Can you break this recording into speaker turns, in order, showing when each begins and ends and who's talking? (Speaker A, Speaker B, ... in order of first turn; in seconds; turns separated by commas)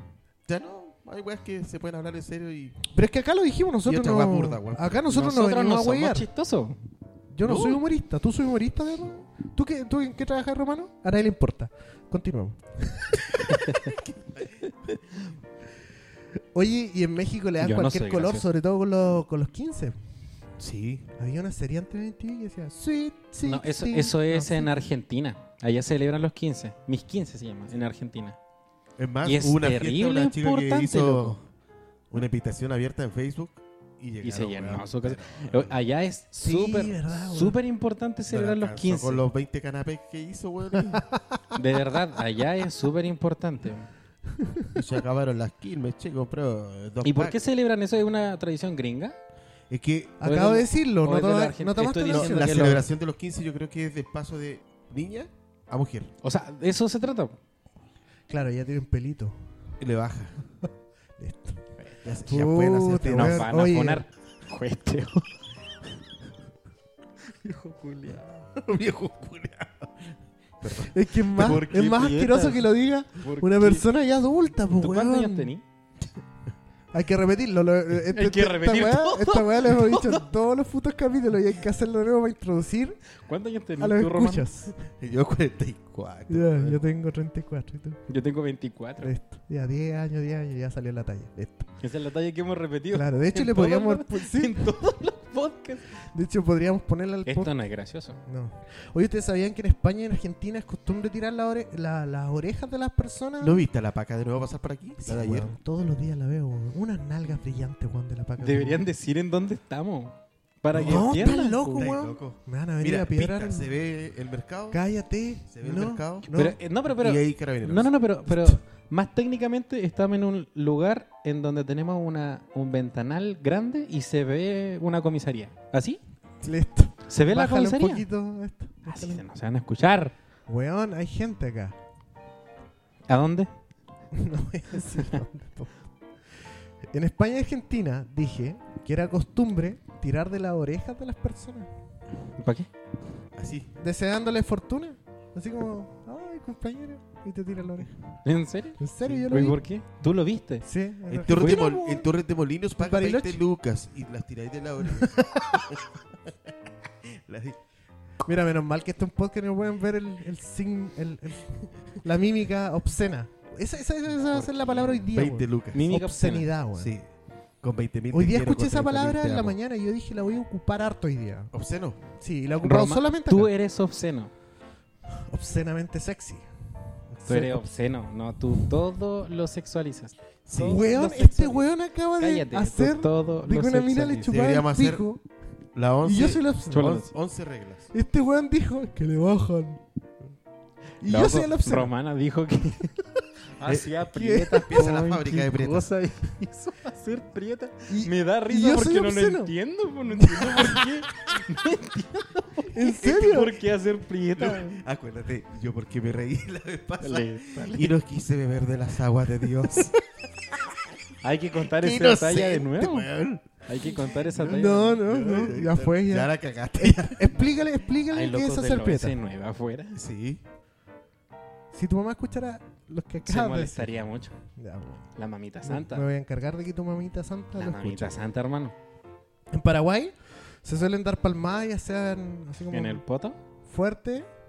Speaker A: 0.5-2.9, Speaker B: 2.9-6.3, Speaker A: 3.9-5.0, Speaker C: 5.1-6.8, Speaker B: 7.3-13.7, Speaker A: 7.4-7.8, Speaker C: 13.5-14.0, Speaker B: 16.5-20.0, Speaker C: 17.6-18.4, Speaker A: 20.6-21.1, Speaker B: 21.2-24.7, Speaker C: 23.4-28.4, Speaker A: 29.0-31.4, Speaker C: 29.2-31.4, Speaker A: 32.1-35.7, Speaker C: 34.2-39.2, Speaker B: 36.4-37.6, Speaker A: 38.3-41.1, Speaker B: 40.8-41.4, Speaker C: 41.5-43.9, Speaker B: 44.3-44.8, Speaker A: 44.7-47.4, Speaker C: 47.0-49.2, Speaker A: 49.7-50.2, Speaker B: 50.2-52.9, Speaker C: 50.2-52.8, Speaker A: 52.1-56.1, Speaker C: 56.2-57.4, Speaker B: 58.3-59.4, Speaker A: 59.8-60.5, Speaker B: 61.2-61.6, Speaker A: 62.0-63.5, Speaker B: 62.3-64.1, Speaker C: 63.0-65.3, Speaker C: 67.4-68.5, Speaker A: 68.6-71.6, Speaker B: 70.8-75.5, Speaker C: 71.4-73.8, Speaker C: 74.8-75.6, Speaker B: 76.9-83.0, Speaker C: 78.1-80.3, Speaker C: 83.2-84.5, Speaker B: 83.8-84.7, Speaker A: 84.8-86.8, Speaker B: 86.3-88.0, Speaker C: 88.1-89.1, Speaker B: 89.0-91.7, Speaker C: 91.8-96.0, Speaker B: 92.9-94.7, Speaker B: 96.1-97.5, Speaker C: 97.3-98.2, Speaker B: 98.3-103.6, Speaker A: 103.4-105.5, Speaker B: 105.0-108.8, Speaker C: 108.4-111.9, Speaker B: 110.7-113.7, Speaker A: 110.8-114.8, Speaker B: 114.7-116.6, Speaker A: 115.5-116.3, Speaker C: 116.3-126.0, Speaker A: 116.9-117.9, Speaker B: 126.4-129.2, Speaker C: 127.1-128.1, Speaker C: 128.9-130.1, Speaker B: 130.5-131.8, Speaker C: 133.1-133.5, Speaker B: 134.1-135.7, Speaker C: 134.9-135.2, Speaker B: 136.9-141.7, Speaker C: 142.4-142.7, Speaker A: 143.3-143.7, Speaker B: 143.8-147.9, Speaker C: 148.2-150.7, Speaker B: 148.8-149.6, Speaker B: 150.6-152.1, Speaker A: 151.1-155.9, Speaker C: 151.3-151.7, Speaker B: 152.8-153.4, Speaker B: 154.8-155.8, Speaker A: 157.3-157.6, Speaker B: 158.2-166.9, Speaker A: 164.3-165.8, Speaker C: 165.7-166.5, Speaker A: 166.8-167.1, Speaker A: 167.6-169.6, Speaker B: 168.1-171.5, Speaker A: 171.5-172.0, Speaker B: 172.2-173.5, Speaker C: 172.6-174.3, Speaker B: 175.1-176.5, Speaker B: 177.1-177.7, Speaker C: 177.3-181.7, Speaker A: 180.5-180.9, Speaker B: 180.6-185.2, Speaker C: 182.2-184.2, Speaker A: 184.2-185.1, Speaker A: 185.8-187.9, Speaker B: 186.0-187.0, Speaker C: 186.7-187.1, Speaker B: 187.9-189.8, Speaker B: 191.0-191.9, Speaker C: 191.1-204.8, Speaker B: 194.1-194.9, Speaker A: 194.6-195.9, Speaker B: 197.9-199.5, Speaker B: 200.1-200.9, Speaker B: 202.7-203.6, Speaker A: 204.3-210.0, Speaker C: 207.0-207.9, Speaker C: 211.2-213.1, Speaker A: 211.7-217.3, Speaker C: 213.7-215.2, Speaker B: 214.4-219.2, Speaker C: 218.1-220.0, Speaker A: 219.9-220.4, Speaker B: 221.7-223.9, Speaker C: 223.2-224.3, Speaker B: 224.6-225.1, Speaker C: 225.2-226.1, Speaker B: 225.6-228.2, Speaker C: 227.6-228.7, Speaker B: 229.5-233.0, Speaker C: 232.7-233.4, Speaker B: 233.7-234.3